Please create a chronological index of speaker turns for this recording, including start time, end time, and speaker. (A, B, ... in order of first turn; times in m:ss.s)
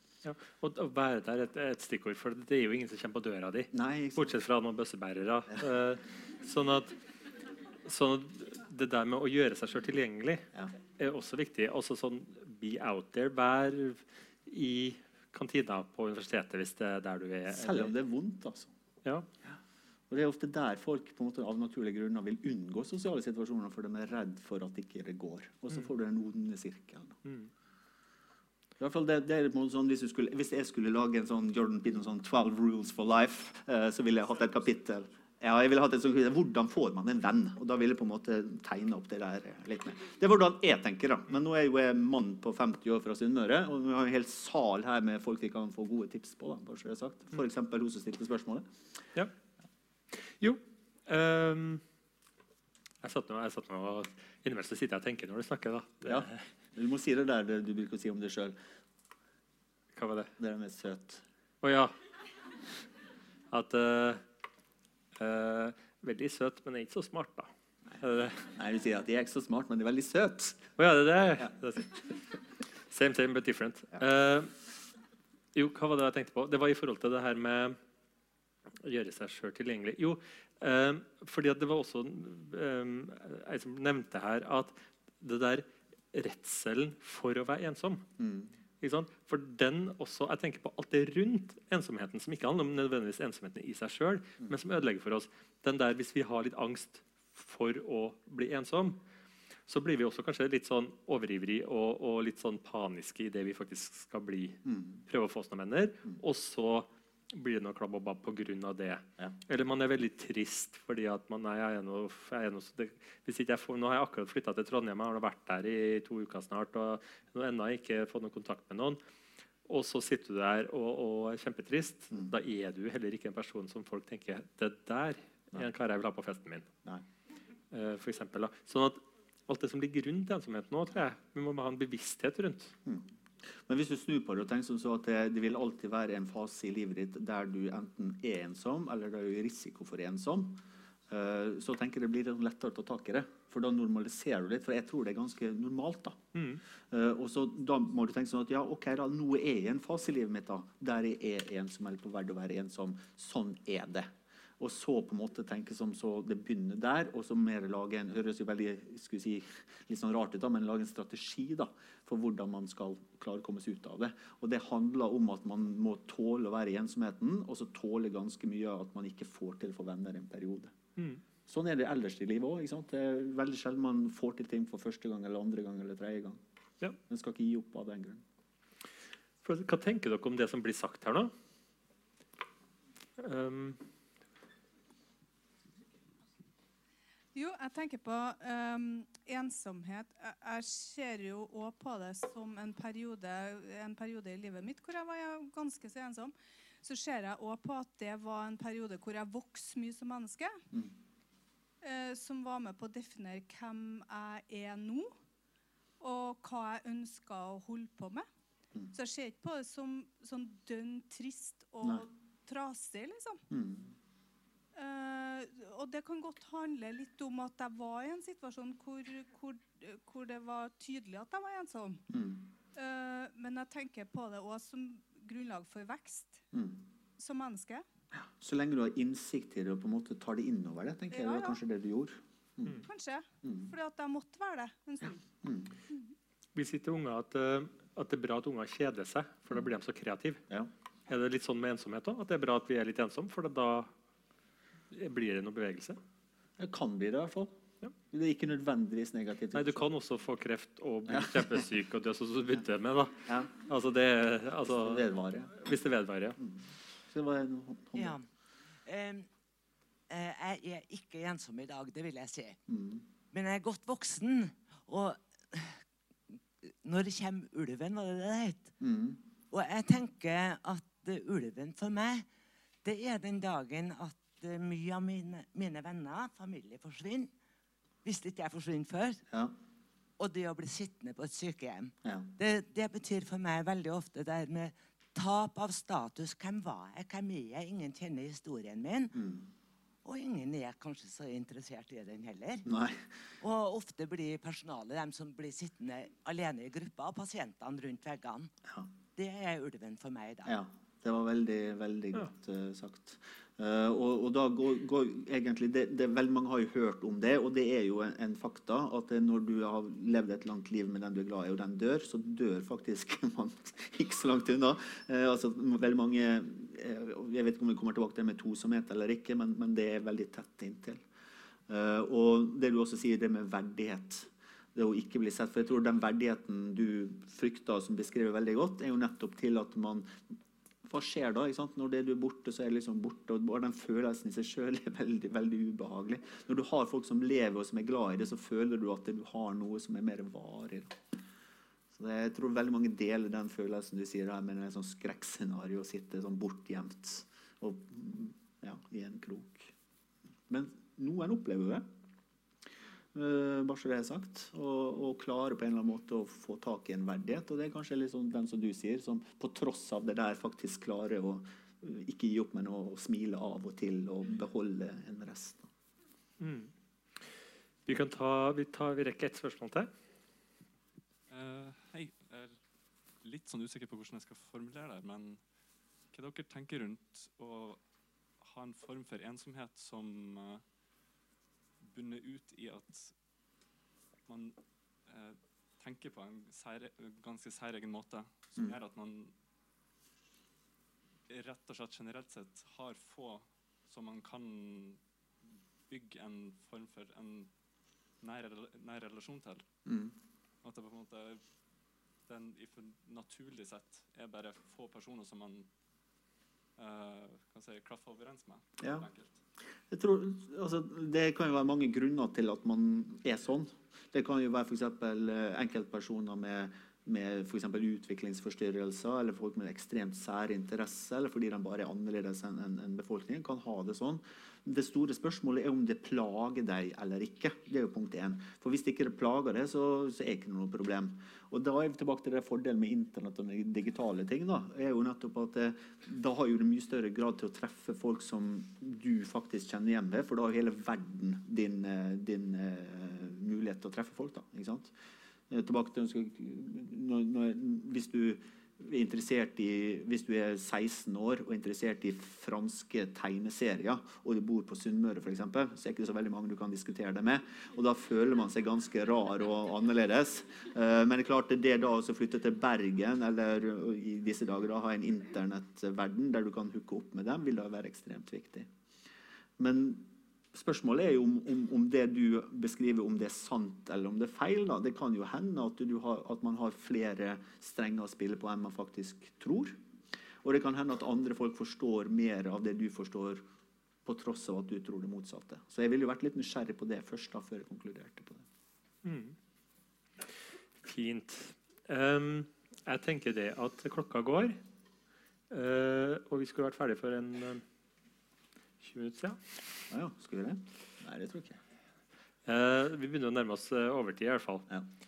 0:00.2-0:07.0 A
0:03.7-0:04.3 B
0:07.8-0:10.5 A
0:11.0-0:17.9 A
0:17.5-0:18.7 B
0:20.1-0:27.2 B
0:28.8-0:48.7 B
0:50.1-0:51.8 A
0:53.0-0:56.4 A
0:56.0-0:58.6 B
1:00.0-1:00.3 A
1:00.4-1:01.2 B
1:01.6-1:01.9 A
1:03.5-1:04.2 A
1:05.2-1:08.5 A
1:08.4-1:10.7 B
1:10.8-1:12.0 A
1:12.9-1:14.5 A
1:15.6-1:17.8 A
1:18.8-1:28.0 A
1:28.2-1:28.5 B
1:28.8-1:39.0 A
1:39.7-1:59.0 A
1:44.7-1:45.0 B
1:59.7-2:06.7 A
2:07.7-2:12.7 A
2:12.9-2:26.2 B
2:26.4-2:26.6 A
2:26.9-2:50.7 B
2:51.5-2:56.4 B
2:57.1-2:58.2 B
2:59.4-3:01.3 A
3:03.2-3:03.8 A
3:07.4-3:20.6 C
3:21.8-3:25.2 C
3:26.0-3:28.3 C
3:28.9-3:33.4 C
3:33.5-3:33.9 B
3:34.8-3:42.0 C
3:42.1-3:42.5 B
3:42.7-3:46.4 C
3:46.5-3:46.8 B
3:47.2-3:47.8 C
3:48.4-3:52.8 B
3:51.1-3:51.6 C
3:52.8-3:55.2 C
3:53.4-3:53.7 B
3:55.4-3:55.7 B
3:56.6-4:00.4 A
4:01.1-4:03.9 A
4:04.9-4:06.0 A
4:06.6-4:07.6 B
4:08.1-4:09.9 B
4:09.5-4:15.0 A
4:11.1-4:11.6 B
4:14.6-4:15.6 B
4:15.6-4:16.4 A
4:16.4-4:18.2 B
4:18.0-4:18.3 D
4:18.9-4:19.3 D
4:20.1-4:22.6 D
4:22.7-4:23.0 B
4:23.3-4:25.8 D
4:26.8-4:28.8 D
4:28.8-4:29.2 B
4:29.5-4:32.3 D
4:32.8-4:37.3 D
4:38.0-4:39.2 D
4:40.2-4:49.2 D
4:49.1-4:49.5 B
4:50.0-4:52.6 D
4:52.6-4:53.0 B
4:53.4-4:58.5 D
4:59.2-5:00.6 D
5:00.5-5:21.0 B
5:21.7-5:30.2 B
5:30.8-5:41.0 B
5:41.9-5:49.7 B
5:50.5-5:51.9 B
5:53.1-6:05.7 B
6:06.4-6:06.7 A
6:07.9-6:09.9 A
6:11.3-6:12.6 E
6:13.2-6:15.4 E
6:16.1-6:17.8 E
6:18.4-6:20.6 E
6:21.8-6:23.2 E
6:24.3-6:29.3 E
6:31.3-6:35.0 E
6:35.9-6:37.5 E
6:38.2-6:39.7 E
6:39.9-6:40.1 B
6:40.6-6:41.4 E
6:42.2-6:45.7 E
6:46.8-6:49.4 E
6:48.8-6:49.1 B
6:49.9-7:24.9 B
7:25.5-7:48.7 B
7:49.6-7:59.8 B
8:00.4-8:03.4 B
8:04.0-8:08.4 B
8:09.0-8:09.4 A
8:10.8-8:14.6 A
8:15.5-8:17.6 A
8:18.8-8:19.4 A
8:19.9-8:21.6 B
8:22.5-8:24.7 A